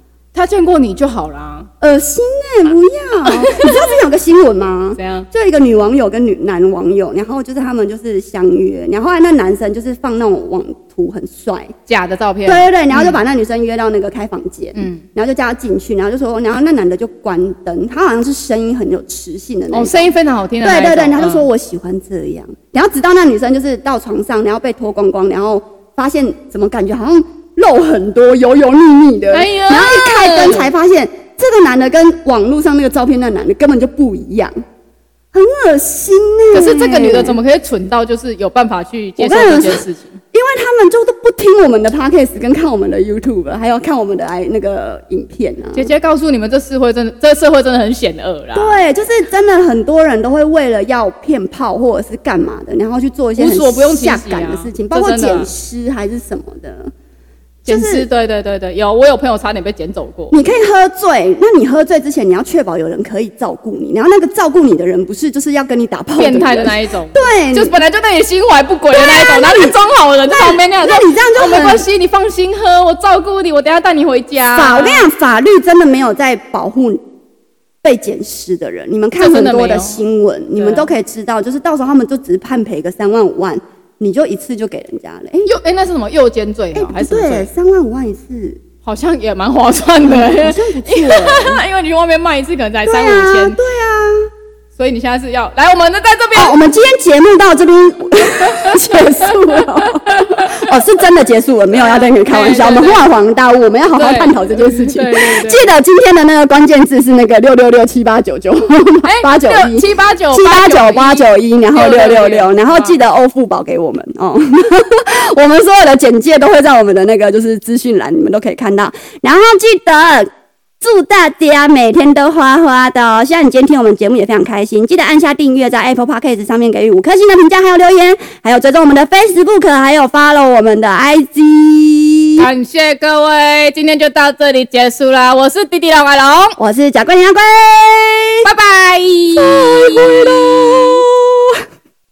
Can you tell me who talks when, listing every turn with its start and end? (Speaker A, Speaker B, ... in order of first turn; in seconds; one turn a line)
Speaker A: 0.3-1.7
Speaker B: 1.8-11.7
Speaker A: 3.2-3.8
Speaker A: 5.0-5.3
Speaker A: 11.9-13.2
Speaker B: 12.4-34.5
Speaker A: 14.8-15.0
Speaker A: 19.7-21.4
Speaker A: 29.3-30.7
Speaker B: 35.3-37.4
Speaker A: 36.5-40.2
Speaker B: 39.2-45.9
Speaker A: 45.7-48.8
Speaker B: 48.5-56.9
Speaker A: 53.4-55.5
Speaker B: 57.6-58.0
Speaker A: 57.6-60.4
Speaker B: 60.3-67.8
Speaker A: 66.2-75.1
Speaker B: 68.9-71.9
Speaker B: 74.5-77.0
Speaker B: 77.8-85.5
Speaker A: 79.2-80.0
Speaker A: 80.5-80.9
Speaker A: 85.4-87.5
Speaker B: 86.7-88.6
Speaker A: 88.8-93.6
Speaker B: 90.0-91.6
Speaker B: 92.9-94.2
Speaker A: 94.8-96.5
Speaker B: 96.3-120.3
Speaker A: 100.1-100.5
Speaker A: 101.7-103.0
Speaker A: 104.0-105.7
Speaker A: 109.0-113.0
Speaker B: 120.8-132.4
Speaker A: 132.4-136.6
Speaker B: 136.6-138.5
Speaker A: 138.4-140.8
Speaker B: 139.4-141.6